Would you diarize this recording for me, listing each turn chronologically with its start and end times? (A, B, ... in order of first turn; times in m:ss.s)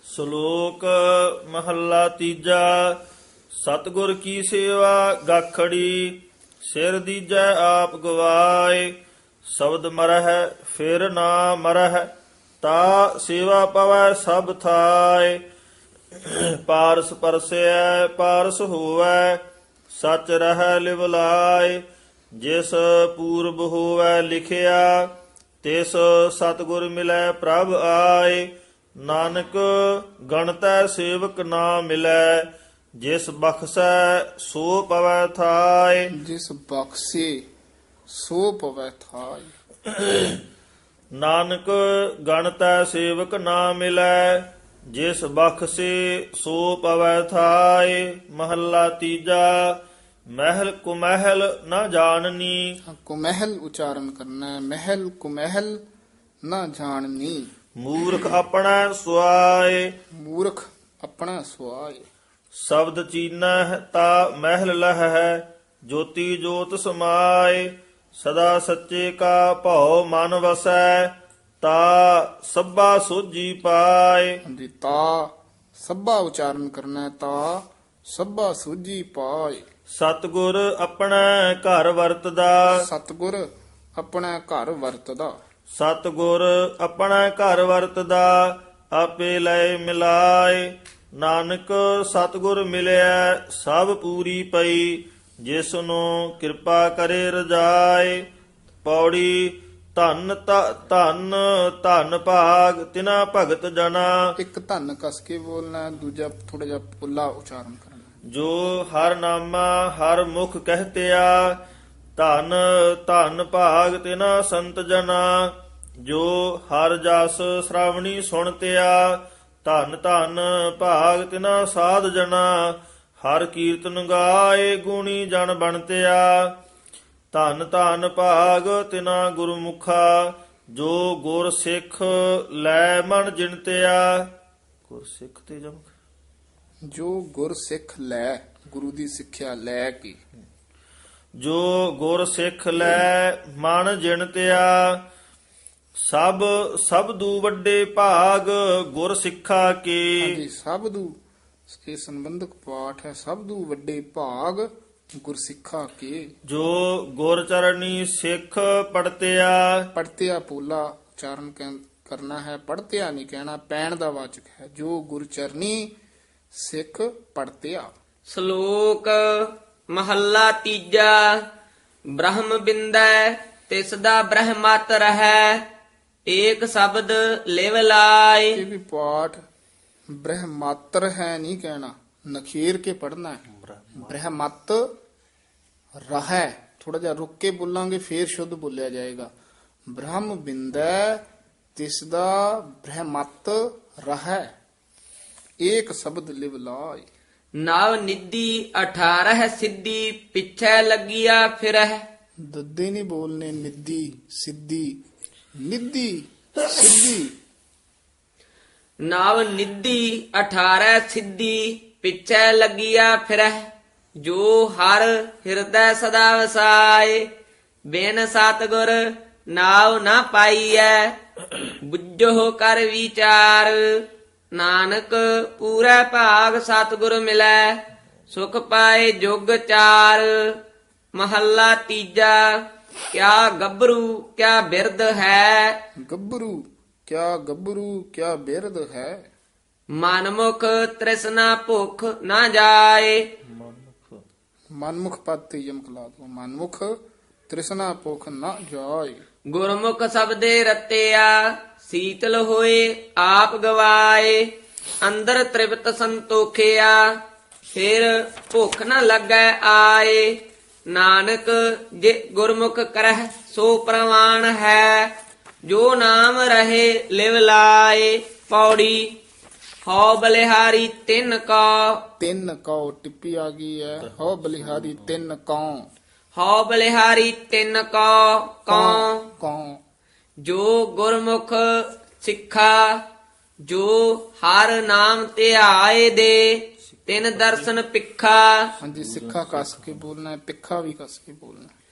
0:00.1-0:03.0 A
0:03.5-0:08.9 A
0:09.5-0:12.1 A
0:12.6-0:15.4 A
0:16.2-0:21.8 A
0:22.4-0:25.1 A
0:25.6-0:28.5 A
0:29.0-0:32.5 A
0:33.0-0:36.1 A
0:36.1-0:37.4 B
0:38.1-0:39.5 B
0:39.9-0:40.4 A
0:41.2-0:49.8 A
0:50.3-0:52.7 A
0:52.9-0:55.8 B
0:56.4-0:57.5 B
0:57.8-0:59.9 A
1:00.2-1:02.0 B
1:02.6-1:14.4 A
1:14.5-1:19.6 B
1:19.9-1:22.8 A
1:22.7-1:23.4 B
1:24.0-1:25.4 B
1:25.7-1:38.2 A
1:38.8-1:44.3 A
1:44.4-1:48.1 B
1:48.3-1:51.6 A
1:52.2-2:06.6 A
2:07.3-2:14.3 A
2:14.9-2:15.9 A
2:16.9-2:20.2 B
2:21.4-2:25.0 A
2:26.0-2:30.4 A
2:30.2-2:31.1 B
2:31.7-2:34.7 B
2:35.2-2:36.3 B
2:36.5-2:39.9 A
2:39.9-2:45.9 B
2:46.6-2:47.9 B
2:48.3-2:51.4 C
2:52.1-2:55.6 C
2:56.3-2:58.6 C
2:58.6-2:59.4 B
3:00.2-3:03.4 B
3:03.5-3:04.2 A
3:04.0-3:04.9 B
3:06.0-3:09.3 B
3:09.9-3:11.2 B
3:11.8-3:14.5 B
3:15.6-3:17.1 B
3:17.6-3:22.0 C
3:22.5-3:25.0 B
3:25.6-3:27.4 B
3:29.0-3:33.7 C
3:34.2-3:37.2 C
3:37.9-3:50.6 C
3:51.2-3:52.6 C
3:53.1-3:55.8 C
3:56.0-3:59.3 B
3:59.9-4:03.2 C
4:03.5-4:04.2 A
4:04.8-4:06.9 B
4:07.5-4:09.2 B
4:09.5-4:14.5 C
4:15.0-4:17.1 C
4:17.7-4:25.1 C
4:25.6-4:29.2 C
4:29.9-4:32.1 C
4:32.2-4:35.9 B
4:36.3-4:39.3 C
4:38.7-4:39.8 B
4:40.4-4:43.0 C
4:43.7-4:48.7 C
4:47.0-4:47.7 A
4:48.8-4:51.7 B
4:49.0-4:50.0 A